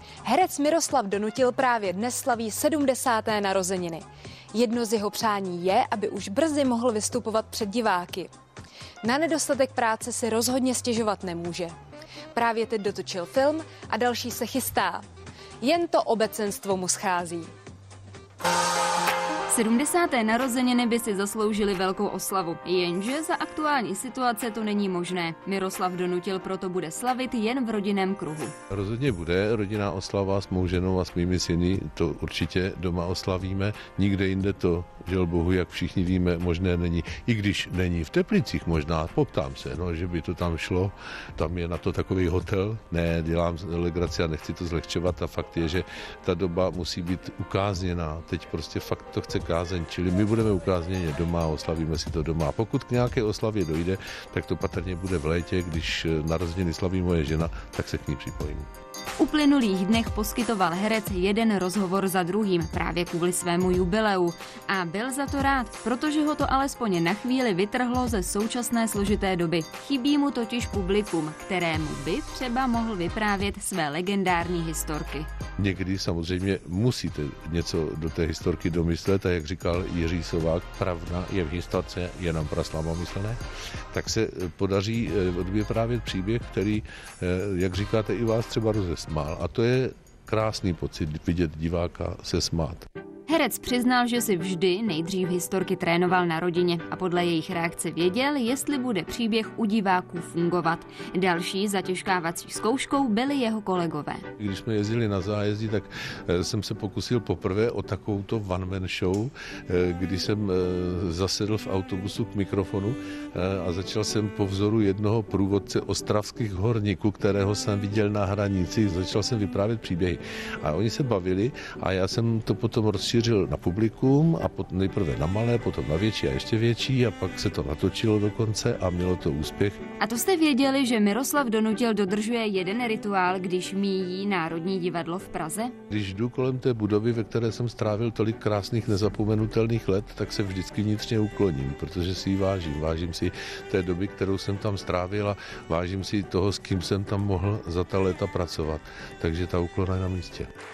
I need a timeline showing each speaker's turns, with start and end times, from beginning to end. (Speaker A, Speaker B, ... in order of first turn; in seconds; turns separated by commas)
Speaker A: 0.2-8.3, Speaker A: 9.0-11.7, Speaker A: 12.3-15.0, Speaker A: 15.6-17.5, Speaker B: 19.5-28.5, Speaker C: 28.7-58.7, Speaker B: 59.2-75.3, Speaker C: 75.6-83.4, Speaker C: 83.9-92.8, Speaker B: 93.3-104.2, Speaker C: 104.4-129.8, Speaker B: 130.0-135.7, Speaker C: 135.9-150.5